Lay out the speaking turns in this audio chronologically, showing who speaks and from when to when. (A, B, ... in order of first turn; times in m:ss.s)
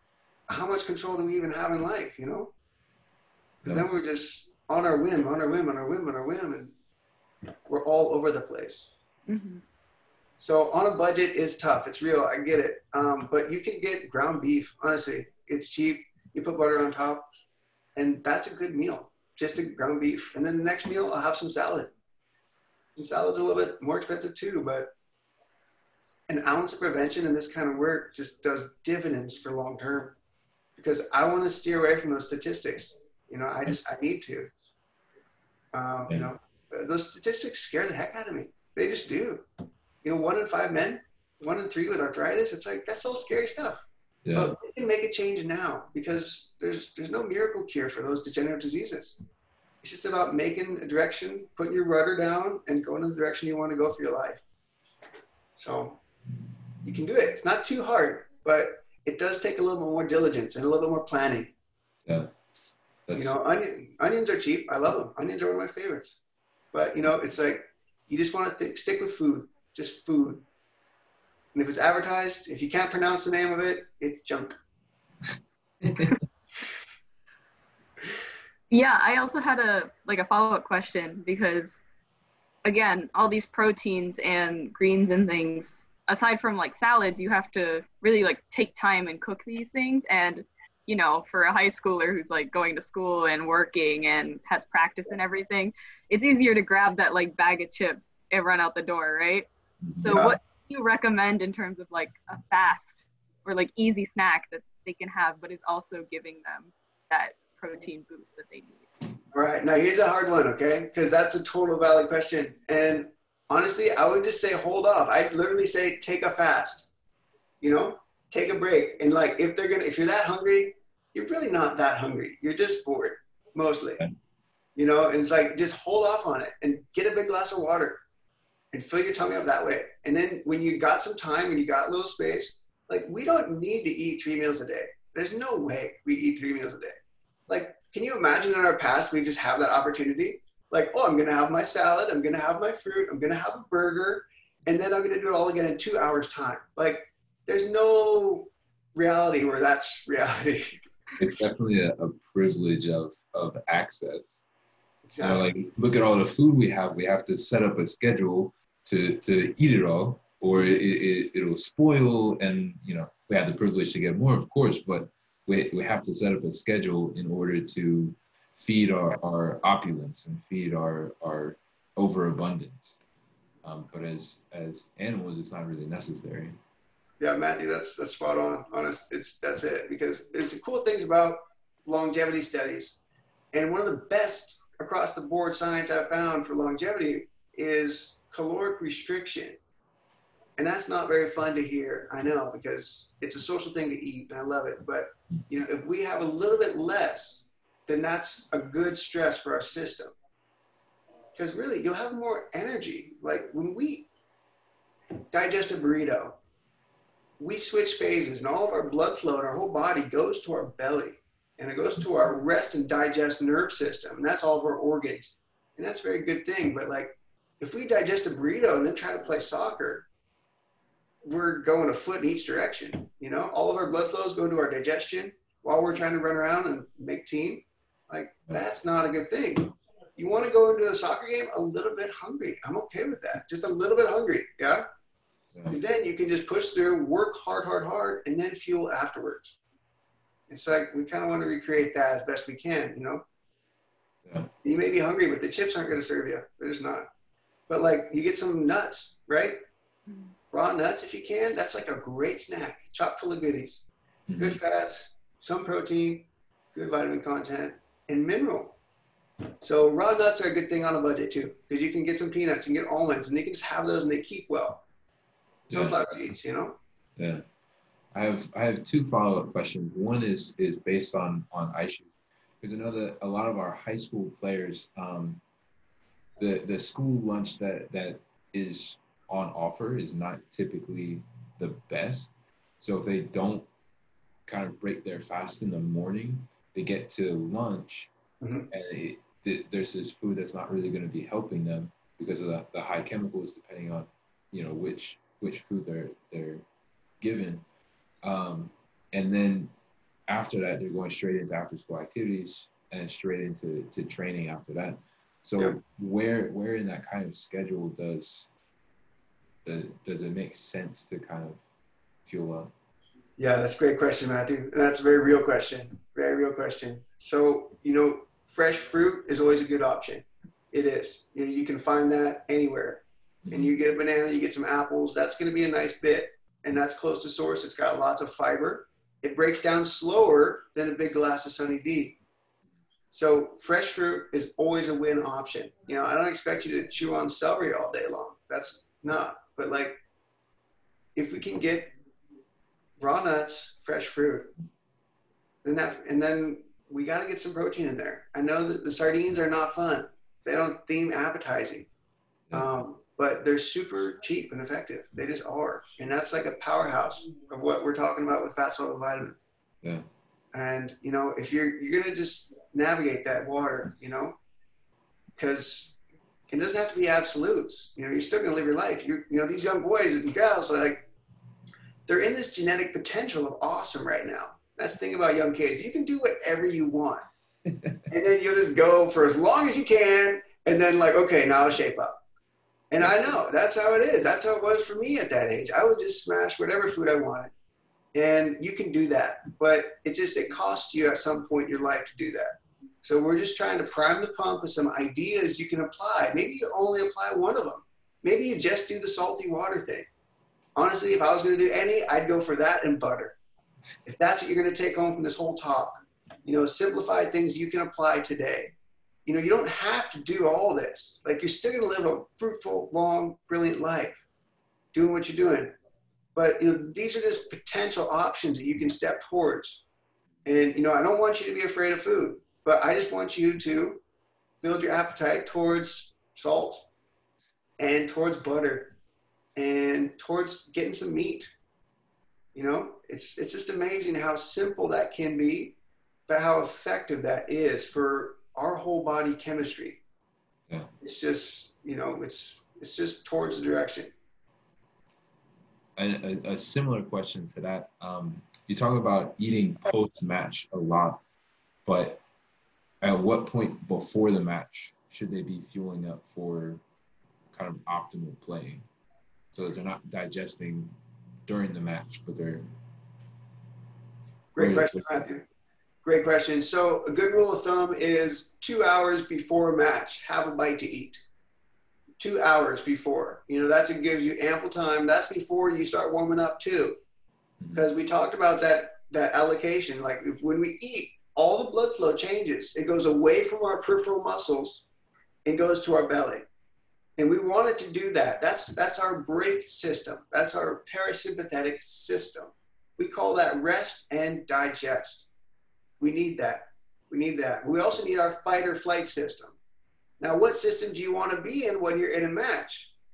0:00.5-0:02.5 A
0:03.6-0:06.7 A
0:07.7-0:08.9 A
0:09.3-0:09.6 B
0:10.4-0:17.2 A
0:18.0-0:21.9 A
0:23.0-0:24.9 A
0:26.3-0:30.2 A
0:30.8-0:34.5 A
0:35.7-0:39.4 A
0:40.0-0:49.2 A
0:44.2-0:44.5 C
0:49.8-0:54.4 A
0:55.6-0:56.0 A
0:56.8-1:01.5 A
1:02.1-1:02.4 C
1:03.1-1:03.4 C
1:03.1-1:06.2 A
1:06.7-1:10.4 A
1:11.5-1:14.6 A
1:15.8-1:16.2 C
1:18.7-1:21.8 B
1:22.6-1:39.5 B
1:39.8-1:40.3 C
1:40.0-1:48.9 B
1:40.1-1:40.4 A
1:49.3-1:56.9 A
1:57.6-2:04.0 A
2:04.8-2:08.0 A
2:08.7-2:30.8 A
2:31.2-2:34.4 C
2:35.1-2:35.5 A
2:35.2-2:53.0 C
2:53.6-2:56.6 C
2:57.2-3:03.0 A
3:03.5-3:09.6 A
3:10.6-3:20.2 A
3:21.4-3:24.1 A
3:25.3-3:26.4 A
3:27.4-3:40.1 A
3:41.2-3:54.8 A
3:55.7-3:59.6 A
4:00.5-4:03.2 A
4:04.2-4:04.5 C
4:04.6-4:07.1 A
4:07.7-4:09.6 A
4:10.5-4:13.8 A
4:14.3-4:14.6 C
4:14.4-4:18.8 A
4:19.6-4:24.8 A
4:25.7-4:26.8 A
4:25.7-4:26.2 C
4:27.2-4:27.4 C
4:28.1-4:32.1 C
4:32.6-4:35.4 C
4:36.4-4:43.7 C
4:44.5-4:48.1 C
4:48.4-4:48.7 A
4:48.7-4:56.6 C
4:57.2-4:57.6 C
4:58.2-4:59.7 C
5:00.3-5:08.5 C
5:09.6-5:11.6 C
5:12.3-5:12.7 C
5:13.4-5:32.2 A
5:23.4-5:23.8 C
5:33.1-5:40.0 A
5:41.2-5:41.9 A
5:43.0-5:44.5 A
5:45.6-5:51.9 A
5:52.5-5:59.4 A
6:00.5-6:04.4 A
6:05.4-6:05.9 A
6:06.5-6:11.1 A
6:12.1-6:17.2 A
6:17.7-6:18.0 C
6:18.1-6:22.2 A
6:22.9-6:27.5 A
6:23.0-6:23.4 C
6:28.1-6:40.1 A
6:40.8-6:43.4 A
6:44.0-6:48.7 A
6:49.3-6:54.2 A
6:54.9-6:55.8 A
6:56.4-6:59.8 A
7:00.4-7:04.0 A
7:04.6-7:06.9 A
7:07.8-7:09.0 A
7:09.6-7:11.5 A
7:12.5-7:15.8 A
7:16.3-7:20.0 A
7:21.0-7:24.1 A
7:26.0-7:31.2 C
7:31.9-7:32.2 C
7:33.0-7:36.8 C
7:37.5-7:38.8 C
7:39.5-7:41.0 C
7:41.5-7:42.7 C
7:44.6-7:45.4 A
7:44.6-7:45.2 C
7:46.0-7:51.2 A
7:52.2-7:57.0 A
7:57.6-7:57.9 C
7:57.7-8:04.8 A
8:05.4-8:06.4 A
8:07.2-8:15.3 A
8:16.0-8:19.6 A
8:20.2-8:22.9 A